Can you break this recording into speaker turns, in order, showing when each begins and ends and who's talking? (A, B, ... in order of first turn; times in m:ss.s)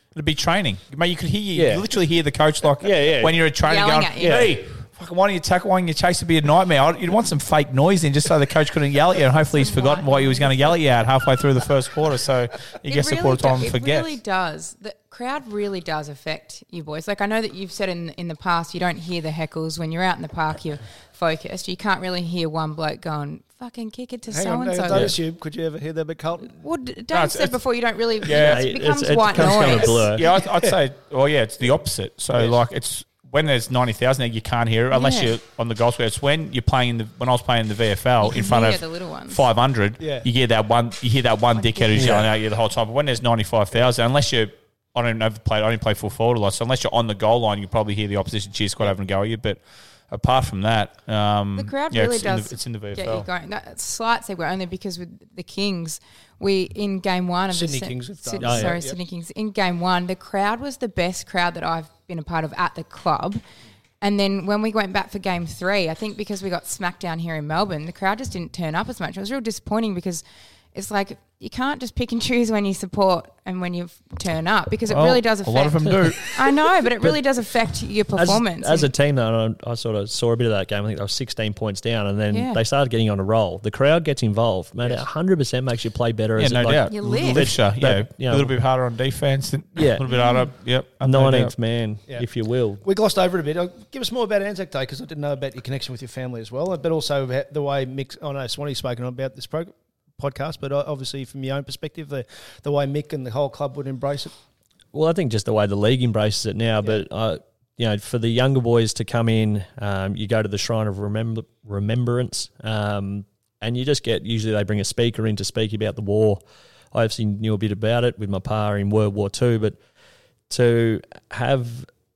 0:00.1-0:14.1 A
0:01.5-0:01.9 B
0:02.8-0:03.4 B
0:03.6-0:04.5 C
0:04.2-0:04.6 B
0:09.5-0:10.8 C
0:12.9-0:25.1 C
0:24.3-0:26.5 D
0:26.6-0:30.1 C
0:27.1-0:27.5 A
0:28.2-0:28.6 A
0:28.3-0:30.2 B
0:30.1-0:53.3 A
0:34.9-0:35.3 C
0:38.2-0:39.4 C
0:40.0-0:40.2 D
0:41.6-0:41.9 C
0:42.0-0:42.2 B
0:51.5-1:03.4 C
0:57.5-0:59.0 D
0:58.4-0:58.8 B
1:04.0-1:18.9 C
1:14.9-1:16.3 A
1:18.2-1:28.6 B
1:22.3-1:22.6 C
1:26.4-1:31.5 A
1:26.9-1:27.4 C
1:29.8-1:30.0 B
1:30.1-1:30.5 C
1:31.0-1:32.8 B
1:32.8-1:44.3 D
1:44.9-1:56.4 B
1:56.9-1:59.8 B
2:00.5-2:01.9 B